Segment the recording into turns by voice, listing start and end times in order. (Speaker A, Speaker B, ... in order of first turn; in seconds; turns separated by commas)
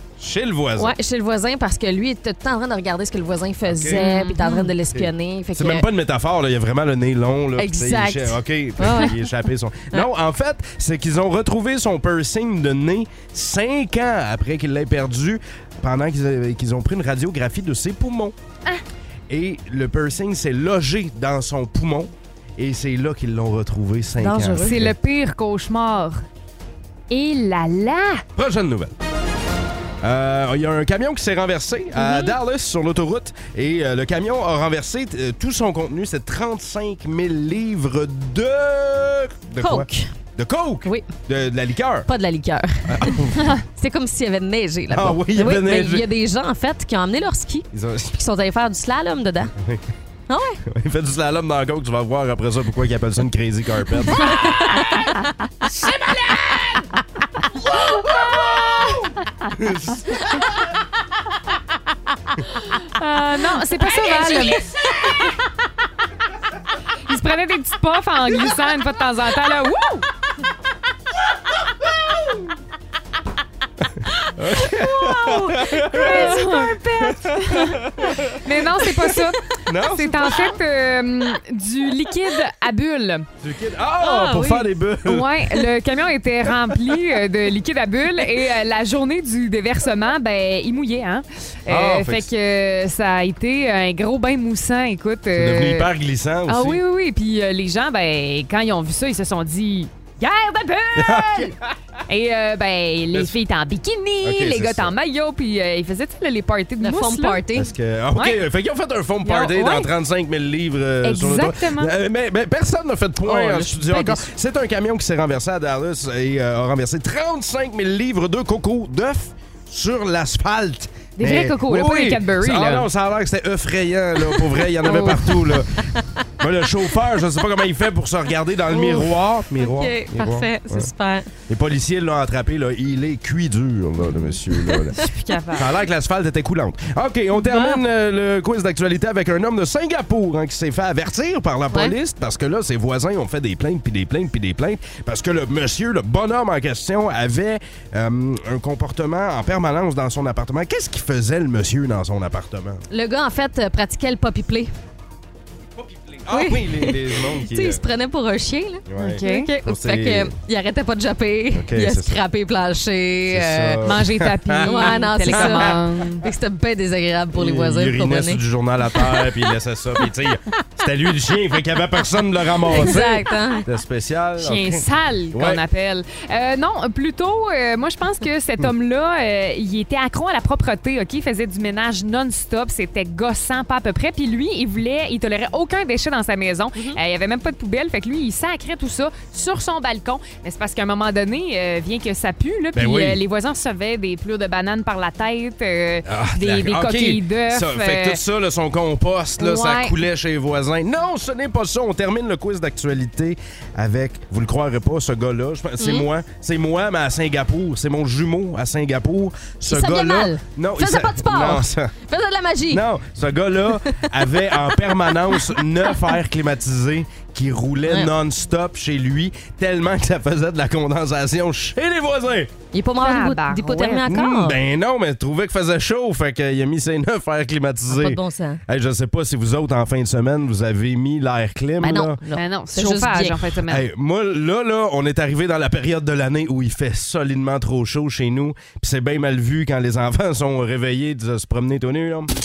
Speaker A: 0.2-0.9, Speaker B: 0.8-5.8, Speaker A: 3.7-4.0, Speaker C: 3.9-4.7, Speaker A: 4.9-18.3, Speaker B: 7.6-9.1, Speaker A: 19.3-24.9, Speaker B: 24.2-24.8, Speaker C: 24.6-26.2, Speaker C: 27.1-28.2, Speaker A: 28.4-28.9, Speaker A: 30.0-42.1, Speaker B: 31.9-32.4, Speaker B: 39.6-40.1, Speaker B: 40.8-41.1, Speaker B: 42.1-43.2, Speaker A: 42.9-43.5, Speaker B: 43.7-49.5, Speaker A: 44.9-46.1, Speaker A: 47.7-48.1, Speaker B: 50.3-50.6, Speaker A: 50.7-54.8, Speaker B: 54.2-55.1, Speaker A: 58.2-58.9, Speaker A: 59.5-60.5, Speaker C: 62.5-65.3, Speaker B: 64.1-64.4, Speaker C: 67.1-70.1, Speaker A: 74.3-80.6, Speaker C: 74.8-83.2, Speaker A: 83.4-85.5, Speaker C: 84.0-95.9, Speaker A: 91.7-92.3, Speaker A: 95.3-96.8, Speaker C: 96.5-101.5, Speaker A: 101.0-101.5, Speaker C: 102.1-107.4, Speaker A: 104.2-104.9, Speaker B: 106.8-107.7, Speaker A: 107.5-125.8, Speaker C: 108.1-108.4, Speaker C: 109.2-109.9, Speaker C: 111.0-111.9, Speaker B: 113.2-114.3, Speaker C: 121.2-122.9, Speaker C: 124.8-125.3, Speaker B: 125.8-126.0, Speaker A: 126.4-130.9, Speaker B: 128.7-131.3, Speaker A: 131.5-152.8, Speaker B: 134.7-135.1, Speaker C: 134.9-135.7, Speaker B: 152.9-154.7, Speaker A: 155.8-157.8, Speaker B: 156.3-163.8, Speaker A: 158.9-160.3, Speaker C: 159.0-159.5, Speaker A: 161.6-162.2, Speaker A: 163.3-166.0, Speaker C: 163.8-166.2, Speaker B: 164.6-168.4, Speaker A: 167.3-174.8, Speaker B: 168.9-169.2, Speaker B: 172.7-173.6, Speaker C: 174.4-198.2, Speaker A: 175.3-175.6, Speaker A: 192.7-193.2, Speaker A: 196.1-211.9, Speaker C: 199.4-199.9, Speaker B: 205.8-206.1, Speaker B: 209.7-212.8, Speaker A: 212.7-222.5, Speaker B: 213.9-215.9, Speaker B: 222.7-224.6, Speaker C: 223.0-224.0, Speaker A: 224.1-232.2, Speaker B: 227.9-228.6, Speaker B: 231.8-233.4, Speaker C: 232.3-233.9, Speaker A: 233.7-242.3